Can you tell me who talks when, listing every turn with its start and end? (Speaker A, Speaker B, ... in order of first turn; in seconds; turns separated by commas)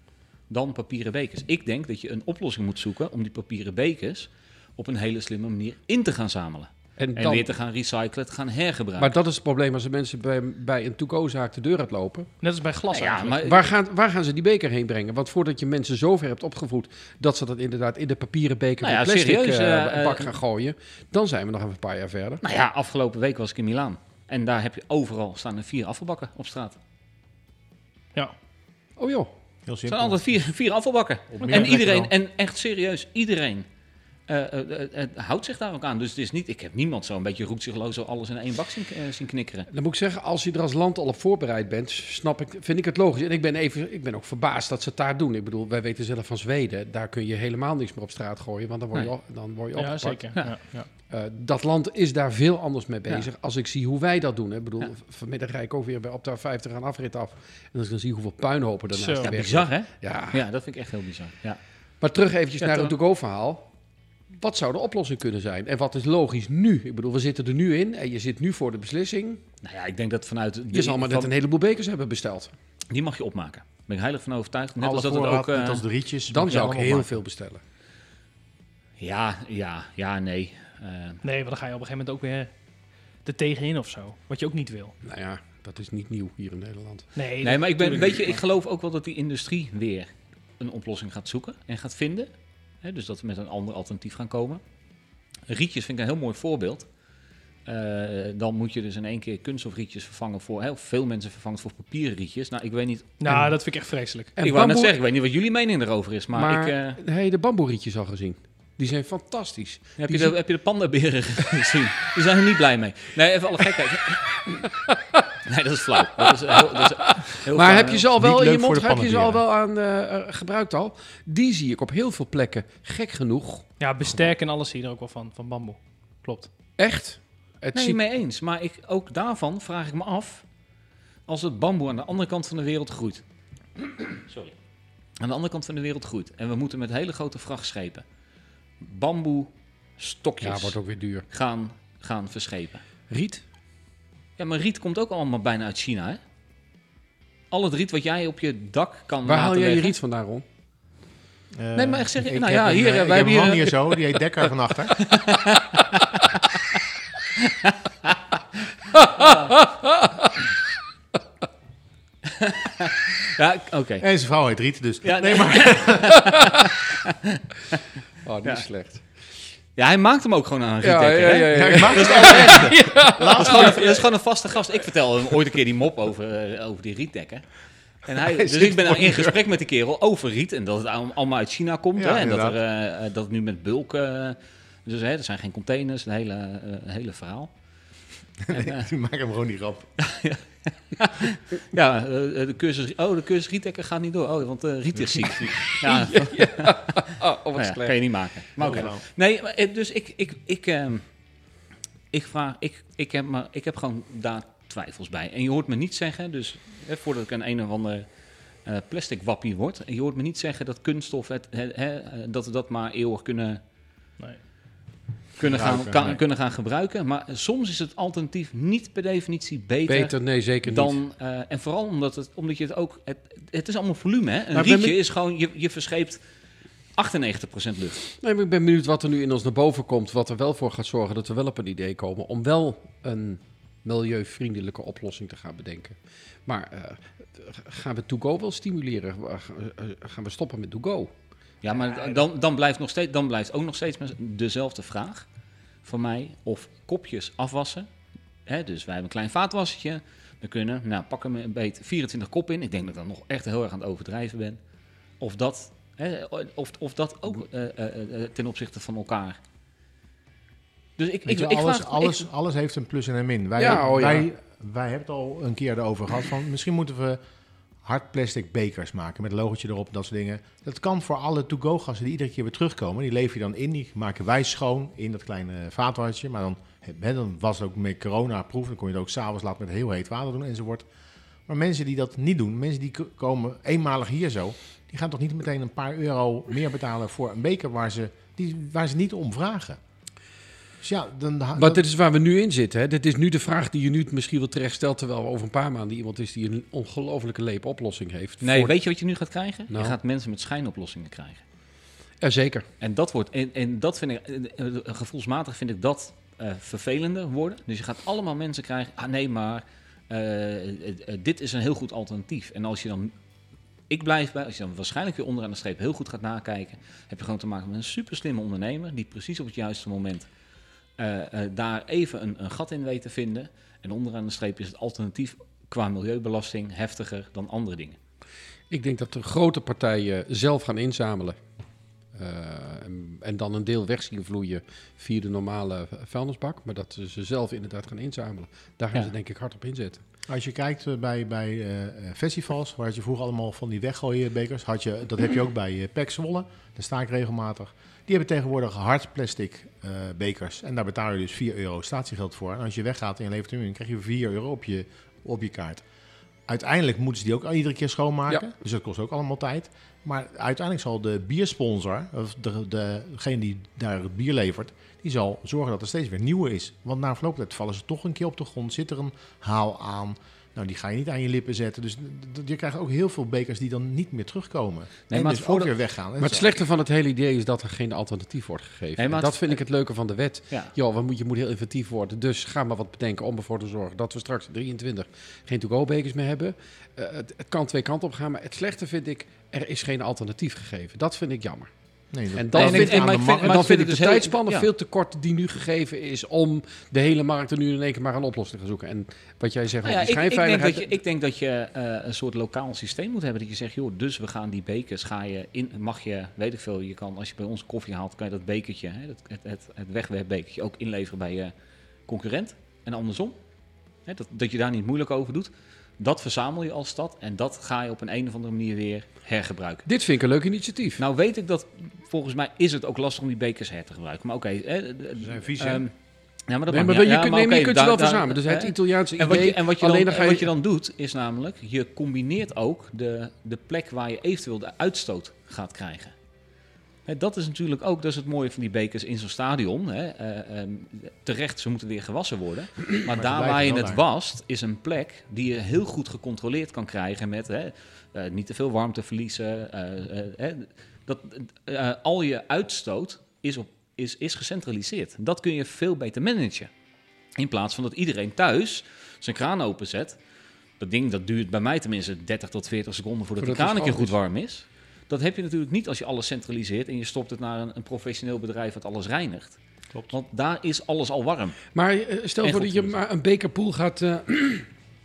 Speaker A: 0.5-9.1, Speaker B: 7.0-7.5, Speaker B: 9.0-12.4, Speaker C: 12.4-13.3, Speaker A: 12.9-13.6, Speaker B: 13.4-22.4, Speaker A: 18.8-20.3, Speaker A: 22.4-26.8, Speaker B: 29.0-29.3, Speaker D: 29.6-30.4, Speaker A: 29.9-33.6, Speaker D: 31.4-32.1, Speaker A: 34.3-39.7, Speaker B: 39.7-60.4, Speaker C: 49.7-50.9, Speaker C: 58.9-59.3, Speaker A: 59.2-61.6, Speaker B: 62.0-63.7, Speaker A: 62.6-62.9, Speaker B: 64.3-69.4, Speaker A: 69.6-71.3, Speaker B: 70.7-72.5, Speaker A: 72.9-75.8, Speaker D: 74.8-77.1, Speaker B: 76.3-77.6, Speaker A: 79.0-81.2, Speaker C: 81.2-82.6, Speaker C: 83.2-85.0, Speaker B: 85.0-87.1, Speaker C: 87.1-88.4, Speaker A: 87.4-90.1, Speaker A: 90.6-94.6, Speaker A: 95.5-96.9, Speaker A: 97.6-103.3, Speaker C: 103.2-104.3, Speaker B: 104.3-105.0, Speaker A: 104.4-107.0, Speaker B: 106.3-110.3, Speaker A: 110.0-114.7, Speaker A: 115.5-118.1, Speaker B: 116.2-123.8, Speaker D: 118.2-119.4, Speaker C: 123.8-126.5, Speaker B: 126.8-128.0, Speaker A: 127.7-130.4, Speaker A: 131.3-133.2, Speaker A: 134.1-134.5, Speaker A: 135.2-138.0, Speaker A: 138.8-140.8, Speaker B: 140.4-141.2, Speaker A: 141.3-142.8, Speaker B: 143.1-143.4, Speaker A: 144.4-146.2, Speaker A: 147.5-149.9, Speaker B: 149.2-150.4, Speaker D: 151.5-155.2, Speaker A: 151.7-153.9, Speaker A: 155.0-156.8, Speaker A: 157.5-158.2, Speaker B: 159.0-160.3, Speaker A: 159.2-159.5, Speaker A: 162.3-164.1, Speaker D: 164.0-166.6, Speaker A: 165.0-166.9, Speaker B: 168.2-169.1, Speaker A: 169.8-187.5, Speaker B: 170.8-173.9, Speaker D: 171.5-173.8, Speaker C: 172.7-173.1, Speaker D: 178.1-179.4, Speaker D: 182.0-182.6, Speaker D: 188.5-189.9, Speaker A: 188.5-188.8, Speaker A: 190.1-201.0, Speaker B: 195.4-198.9, Speaker D: 198.6-199.0, Speaker A: 202.1-213.6, Speaker A: 215.4-226.2, Speaker D: 215.4-216.2, Speaker B: 219.9-221.0, Speaker B: 224.5-225.0, Speaker A: 226.9-228.1, Speaker B: 228.2-241.1, Speaker A: 241.6-245.2, Speaker A: 245.8-247.9, Speaker A: 248.4-254.6, Speaker A: 255.2-259.4, Speaker A: 261.0-262.3, Speaker D: 261.2-267.2, Speaker B: 263.6-264.3, Speaker D: 267.8-280.9, Speaker D: 281.4-289.8, Speaker D: 290.8-291.8, Speaker B: 291.6-298.7, Speaker A: 298.4-301.4, Speaker B: 299.7-300.0, Speaker B: 302.2-302.7, Speaker A: 302.8-313.1, Speaker A: 313.9-320.3, Speaker A: 321.0-328.0, Speaker B: 328.7-340.0, Speaker D: 340.3-355.8, Speaker D: 356.5-376.5, Speaker A: 375.1-375.9, Speaker B: 376.2-400.9, Speaker A: 379.0-379.8, Speaker A: 380.5-380.7, Speaker D: 392.1-393.6, Speaker A: 392.5-394.7, Speaker A: 399.8-411.5, Speaker A: 412.1-413.4, Speaker A: 414.0-419.9, Speaker B: 419.9-421.0, Speaker A: 421.0-436.1, Speaker B: 425.2-425.8, Speaker B: 426.7-430.5, Speaker A: 437.1-456.7, Speaker D: 443.1-444.0, Speaker A: 457.4-460.2, Speaker A: 460.8-471.7, Speaker B: 463.4-464.1, Speaker B: 471.7-474.7, Speaker A: 472.4-472.9